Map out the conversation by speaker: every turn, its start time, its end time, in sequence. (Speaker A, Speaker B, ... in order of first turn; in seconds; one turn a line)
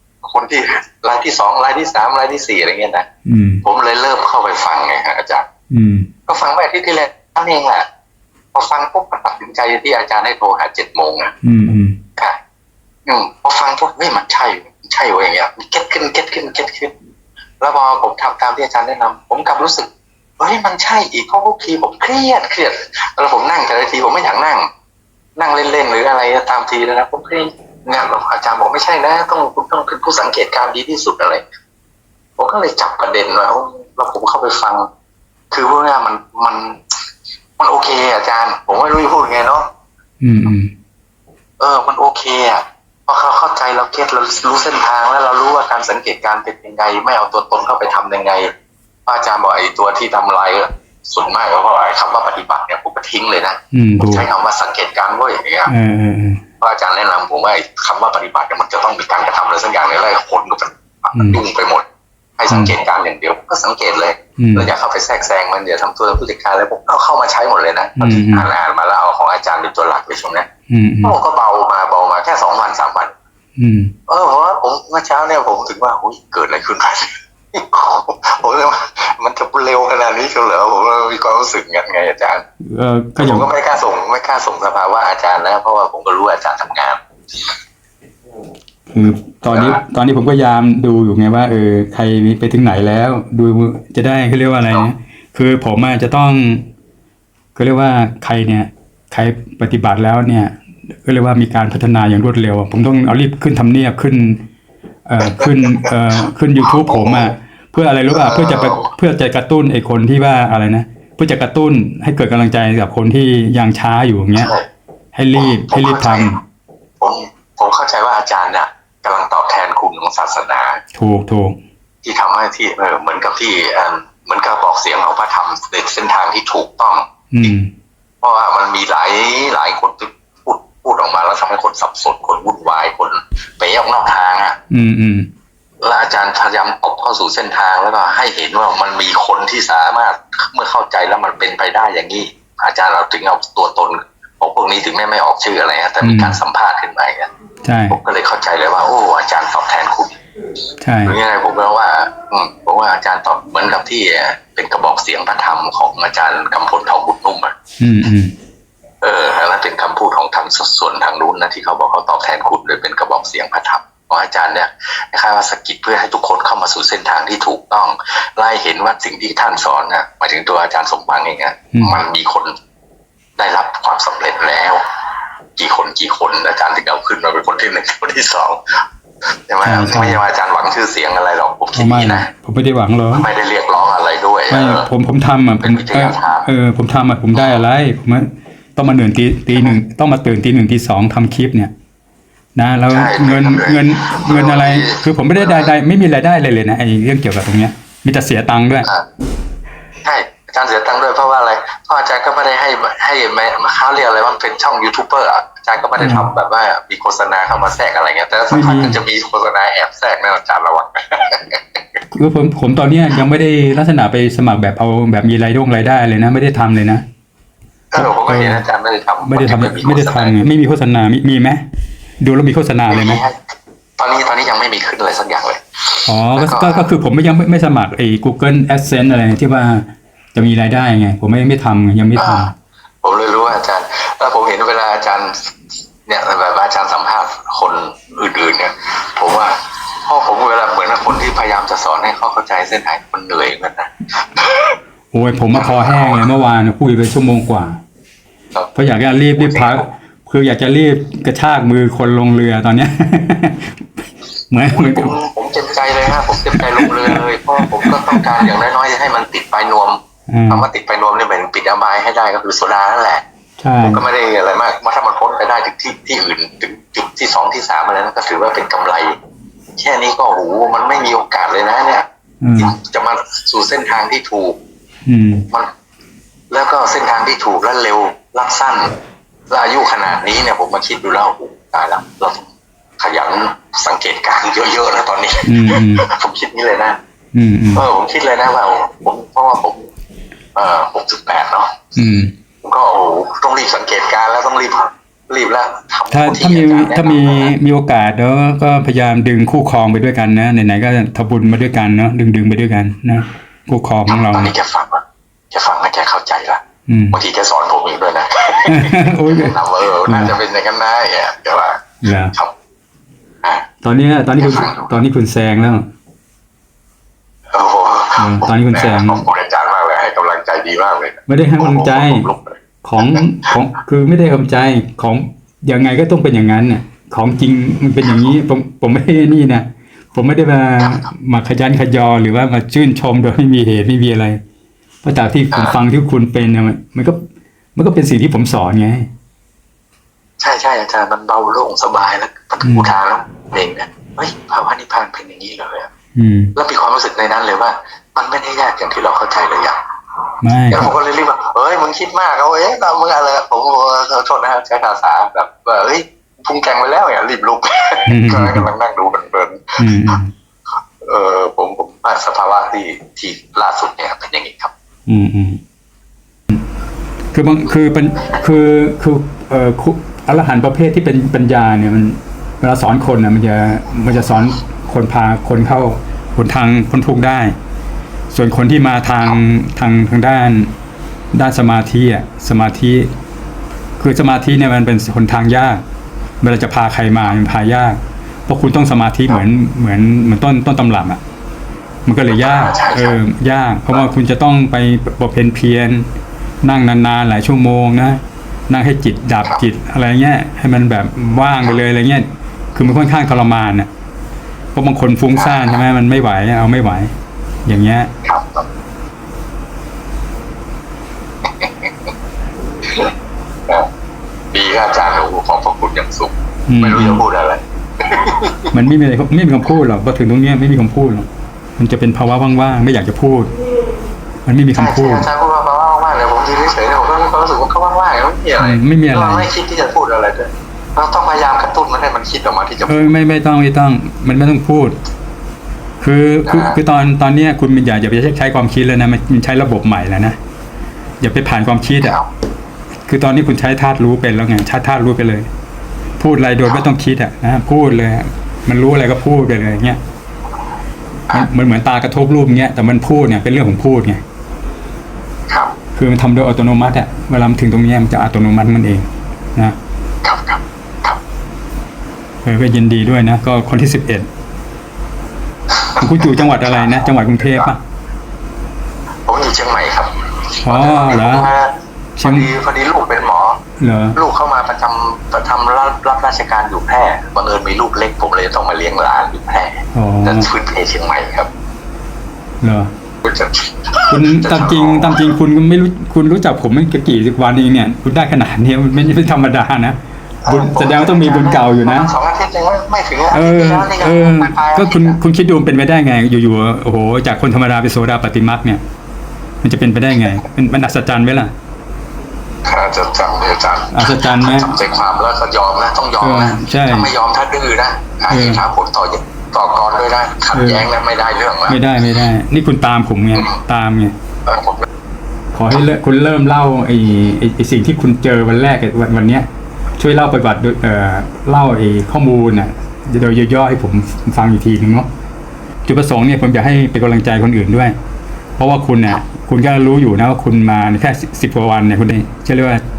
Speaker A: 0.2-3.0
Speaker B: 3.2-3.6
Speaker A: 3.6-5.4
Speaker B: 5.7-6.1
Speaker A: 6.3-7.8
Speaker A: 8.5-11.3
Speaker B: 11.4-11.9
Speaker A: 13.1-16.9
Speaker A: 17.6-24.6
Speaker A: 25.4-31.4
Speaker A: 32.4-34.9
Speaker A: 35.5-36.8
Speaker A: 37.6-39.7
Speaker B: 40.2-40.7
Speaker A: 41.6-48.5
Speaker A: 49.0-55.7
Speaker B: 53.7-54.3
Speaker B: 55.7-56.4
Speaker A: 56.6-61.8
Speaker A: 62.4-70.5
Speaker B: 64.4-64.7
Speaker B: 68.0-68.5
Speaker B: 70.7-71.2
Speaker A: 71.0-73.1
Speaker B: 73.6-73.9
Speaker A: 74.1-82.4
Speaker B: 82.7-83.5
Speaker A: 83.2-87.0
Speaker B: 88.9-96.6
Speaker A: 89.5-89.8
Speaker B: 97.5-104.4
Speaker B: 105.1-114.5
Speaker A: 105.2-107.3
Speaker A: 108.1-108.9
Speaker A: 114.4-114.6
Speaker B: 115.1-116.3
Speaker A: 115.4-116.3
Speaker A: 117.0-120.8
Speaker B: 120.9-121.6
Speaker A: 122.0-127.5
Speaker B: 127.3-127.7
Speaker A: 128.2-134.6
Speaker B: 134.7-135.3
Speaker A: 135.8-147.3
Speaker B: 146.0-146.4
Speaker B: 147.6-148.0
Speaker A: 147.9-150.2
Speaker B: 150.8-151.2
Speaker A: 151.1-157.5
Speaker B: 157.8-158.3
Speaker A: 159.0-172.5
Speaker B: 171.7-172.0
Speaker A: 173.4-174.8
Speaker A: 175.6-178.6
Speaker A: 179.5-182.3
Speaker B: 179.6-180.2
Speaker B: 181.8-183.2
Speaker A: 183.1-184.9
Speaker B: 184.5-191.7
Speaker A: 185.6-186.5
Speaker B: 192.6-198.9
Speaker A: 192.9-195.7
Speaker A: 200.0-211.8
Speaker B: 206.0-206.3
Speaker B: 208.5-209.0
Speaker B: 212.1-217.0
Speaker A: 217.9-220.4
Speaker B: 217.9-218.6
Speaker B: 219.2-221.6
Speaker B: 222.2-223.2
Speaker A: 222.9-223.4
Speaker A: 224.0-226.8
Speaker B: 226.1-232.5
Speaker A: 232.2-232.4
Speaker A: 233.0-235.5
Speaker A: 236.1-244.7
Speaker B: 245.1-247.8
Speaker A: 245.5-246.2
Speaker B: 248.7-253.8
Speaker A: 249.3-249.9
Speaker B: 254.5-255.1
Speaker A: 254.6-260.0
Speaker B: 256.8-257.2
Speaker B: 257.8-258.5
Speaker B: 260.3-260.7
Speaker A: 260.5-263.2
Speaker B: 263.6-264.0
Speaker A: 263.8-269.1
Speaker A: 269.8-272.1
Speaker B: 272.4-272.7
Speaker A: 272.6-274.6
Speaker B: 275.1-275.4
Speaker A: 276.5-278.9
Speaker A: 279.5-282.5
Speaker A: 283.0-287.0
Speaker B: 285.4-286.1
Speaker B: 287.3-287.9
Speaker A: 287.7-289.9
Speaker A: 290.6-291.8
Speaker B: 291.9-292.3
Speaker A: 292.6-297.5
Speaker B: 296.1-304.5
Speaker A: 304.1-312.5
Speaker B: 306.9-307.2
Speaker B: 308.7-310.3
Speaker B: 312.0-312.3
Speaker B: 313.8-315.8
Speaker A: 314.4-314.9
Speaker A: 317.5-323.2
Speaker B: 318.2-319.2
Speaker B: 321.3-322.3
Speaker B: 322.8-334.4
Speaker A: 330.8-331.1
Speaker B: 335.0-337.2
Speaker B: 337.8-339.1
Speaker A: 340.4-345.9
Speaker B: 342.6-342.9
Speaker B: 346.1-346.5
Speaker A: 346.6-349.8
Speaker B: 350.4-350.9
Speaker A: 350.7-360.2
Speaker B: 358.1-358.7
Speaker B: 359.8-360.3
Speaker A: 361.0-364.7
Speaker B: 365.1-365.6
Speaker B: 367.3-377.5
Speaker B: 378.3-380.7
Speaker B: 381.3-383.1
Speaker B: 384.0-385.8
Speaker B: 386.4-391.2
Speaker B: 392.1-396.0
Speaker A: 392.3-393.2
Speaker B: 396.6-403.9
Speaker B: 404.7-407.1
Speaker A: 405.3-405.8
Speaker B: 407.6-408.1
Speaker A: 408.2-408.6
Speaker A: 411.5-412.1
Speaker A: 414.5-418.7
Speaker B: 416.7-417.2
Speaker B: 418.7-421.3
Speaker B: 421.8-423.5
Speaker B: 424.4-425.3
Speaker A: 424.8-433.1
Speaker B: 428.6-429.5
Speaker B: 432.9-434.9
Speaker B: 436.0-440.4
Speaker A: 436.4-436.8
Speaker B: 441.2-442.2
Speaker B: 443.1-445.5
Speaker B: 446.2-450.0
Speaker B: 451.3-454.2
Speaker B: 455.9-459.7
Speaker A: 460.2-461.2
Speaker B: 462.4-464.2
Speaker A: 465.8-467.7
Speaker B: 466.0-467.8
Speaker A: 469.2-473.6
Speaker B: 470.6-471.5
Speaker B: 472.2-472.5
Speaker B: 473.8-474.2
Speaker A: 474.1-481.5
Speaker B: 479.9-480.5
Speaker B: 482.6-482.9
Speaker A: 483.2-485.4
Speaker B: 484.1-492.1
Speaker A: 490.4-495.2
Speaker B: 493.3-498.8
Speaker B: 499.6-501.5
Speaker A: 502.6-511.8
Speaker B: 503.9-504.8
Speaker B: 506.2-507.1
Speaker B: 508.3-508.6
Speaker B: 510.5-510.9
Speaker B: 511.7-514.1
Speaker A: 514.5-514.9
Speaker B: 515.5-519.5
Speaker B: 520.0-525.1
Speaker B: 525.9-527.9
Speaker B: 528.6-532.8